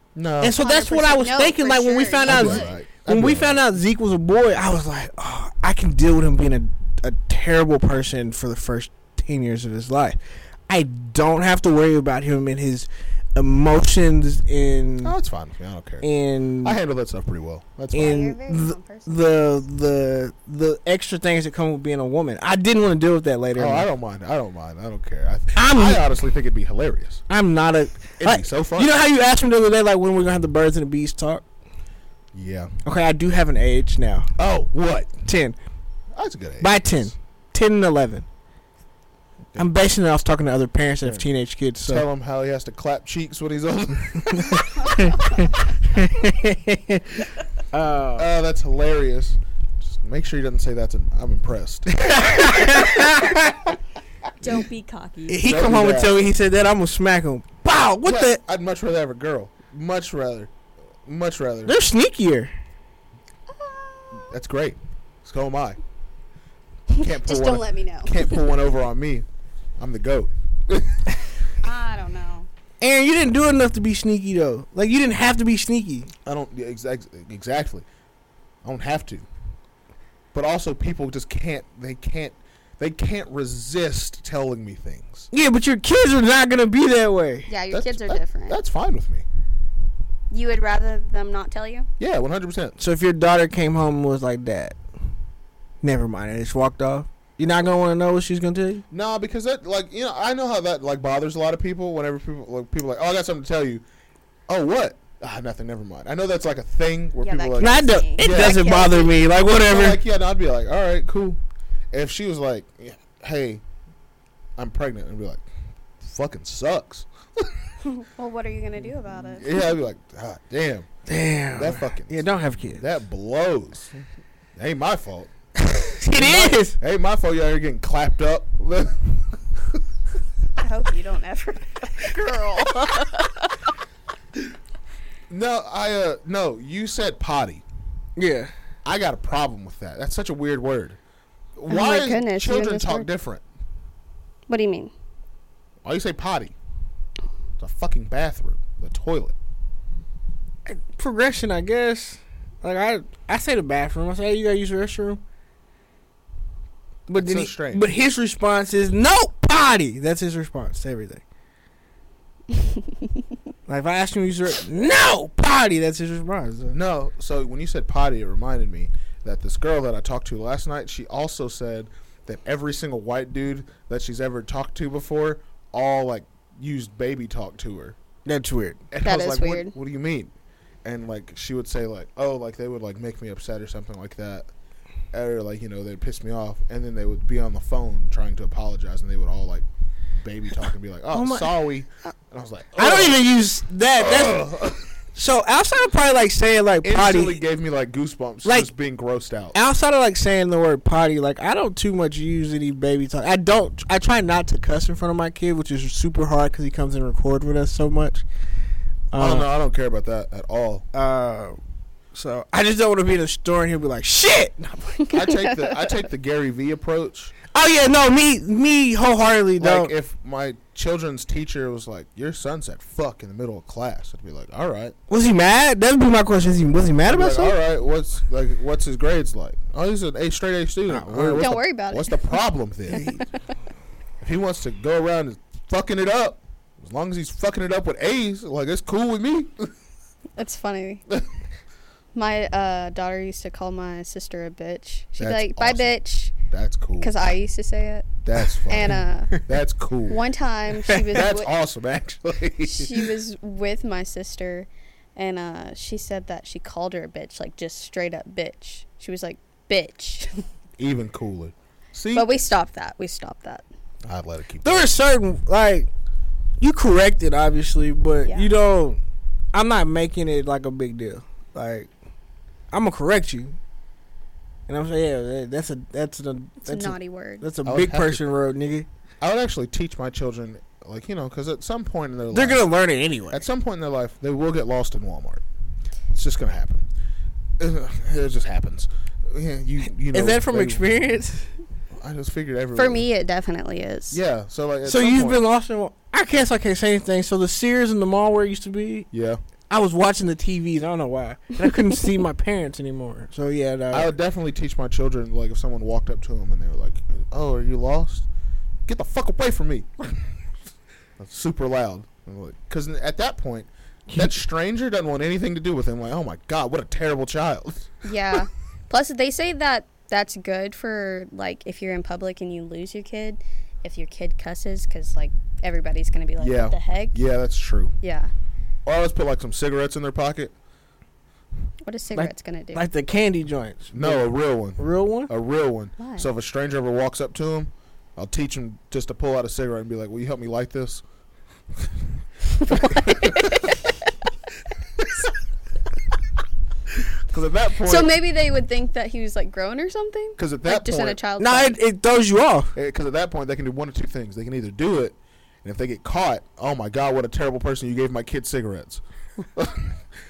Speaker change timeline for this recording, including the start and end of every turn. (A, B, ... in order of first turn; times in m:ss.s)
0:00.2-0:00.6 A
0:00.4-0:15.2 B
0:00.6-0:02.8 C
0:02.3-0:03.6 A
0:15.0-0:16.1 A
0:16.0-0:16.8 B
0:16.6-0:18.2 A
0:17.9-0:23.9 B
0:18.0-0:19.4 C
0:23.6-0:27.2 A
0:25.6-0:26.0 B
0:27.3-0:31.4 B
0:28.2-0:28.9 A
0:32.3-0:32.7 A
0:32.8-0:34.3 B
0:34.4-0:35.2 A
0:35.2-0:35.6 B
0:36.2-0:37.1 A
0:36.6-0:38.3 B
0:39.6-0:42.1 B
0:41.8-0:45.4 A
0:44.3-0:48.3 B
0:48.2-0:52.8 A
0:51.9-0:53.8 B
0:54.4-0:55.4 C
0:55.3-0:58.4 B
0:55.4-0:56.3 A
0:58.0-1:00.5 A
1:01.1-1:01.8 A
1:01.7-1:02.5 B
1:03.5-1:04.3 C
1:04.1-1:05.8 A
1:06.9-1:08.5 C
1:07.0-1:09.2 A
1:09.8-1:11.1 A
1:11.6-1:12.5 C
1:12.8-1:16.1 B
1:16.2-1:17.9 A
1:18.6-1:19.3 A
1:20.3-1:25.3 A
1:25.3-1:27.5 B
1:27.5-1:28.6 C
1:27.7-1:29.2 A
1:30.3-1:31.9 C
1:32.0-1:32.8 A
1:32.8-1:34.8 B
1:35.8-1:38.8 B
1:38.9-1:43.8 A
1:44.5-1:48.6 A
1:47.2-1:49.2 C
1:47.6-1:50.0 B
1:49.5-1:51.4 A
1:51.9-1:53.6 A
1:54.6-1:55.4 A
1:56.0-1:57.7 A
1:57.8-1:59.7 C
1:59.3-2:00.9 A
2:01.1-2:02.8 B
2:01.5-2:04.0 A
2:04.6-2:05.3 A
2:05.6-2:06.8 B
2:06.1-2:09.2 A
2:10.6-2:13.6 C
2:15.3-2:17.6 A
2:18.2-2:18.5 B
2:18.8-2:21.0 A
2:21.6-2:23.4 A
2:21.7-2:23.1 C
2:24.5-2:24.9 C
2:25.8-2:26.6 A
2:27.6-2:29.4 A
2:30.6-2:35.2 B
2:37.1-2:41.2 B
2:37.2-2:37.9 A
2:43.7-2:46.8 B
2:46.7-2:58.0 A
2:58.2-2:58.8 B
2:58.9-3:00.3 A
2:59.0-2:59.7 C
3:00.8-3:04.5 A
3:05.1-3:09.6 A
3:10.2-3:13.3 A
3:11.1-3:11.5 B
3:12.8-3:14.5 B
3:14.0-3:14.9 A
3:15.2-3:17.4 B
3:16.8-3:19.6 A
3:18.4-3:18.7 B
3:19.6-3:28.2 B
3:29.1-3:29.5 B
3:29.2-3:30.9 A
3:30.9-3:31.6 B
3:32.1-3:35.1 B
3:35.0-3:35.8 C
3:35.1-3:37.4 A
3:37.5-3:39.9 B
3:39.6-3:45.0 A
3:45.1-3:47.6 B
3:47.0-3:53.1 A
3:50.9-3:51.6 B
3:51.4-3:52.4 C
3:52.9-3:53.3 B
3:52.9-3:53.3 C
3:54.2-3:59.7 A
4:00.4-4:01.0 C
4:02.1-4:06.4 C
4:05.2-4:06.0 A
4:06.5-4:07.1 A
4:07.0-4:08.1 C
4:08.2-4:10.2 A
4:08.7-4:09.4 C
4:10.1-4:11.5 C
4:10.8-4:11.3 B
4:11.1-4:13.1 A
4:12.6-4:20.4 C
4:20.8-4:22.3 A
4:22.1-4:23.6 C
4:24.0-4:24.9 A
4:24.6-4:25.9 B
4:26.6-4:29.0 B
4:28.2-4:28.5 C
4:29.5-4:31.9 B
4:32.7-4:33.6 B
4:34.7-4:38.9 B
4:36.6-4:37.5 C
4:37.6-4:38.2 A
4:39.2-4:42.7 A
4:42.3-4:43.5 B
4:43.3-4:45.4 A
4:46.1-4:46.9 A
4:47.6-4:50.8 A
4:50.1-4:51.5 B
4:52.0-4:53.1 A
4:52.8-4:54.2 C
4:54.1-4:55.4 A
4:54.8-4:59.1 B
4:59.1-4:59.4 A
4:59.7-5:04.1 B
5:03.9-5:08.3 A
5:08.9-5:10.3 A
5:11.2-5:17.9 A
5:14.1-5:14.4 B
5:18.0-5:27.2 C
5:26.4-5:27.9 A
5:28.0-5:28.3 C
5:28.9-5:30.5 A
5:31.9-5:32.8 C
5:32.1-5:35.3 B
5:33.9-5:41.0 A
5:36.0-5:36.3 C
5:42.6-5:43.7 A
5:42.8-5:43.9 C
5:45.0-5:45.3 A
5:47.3-5:48.2 A
5:47.8-5:51.8 C
5:50.4-5:51.2 A
5:51.4-5:52.7 B
5:52.8-6:00.0 A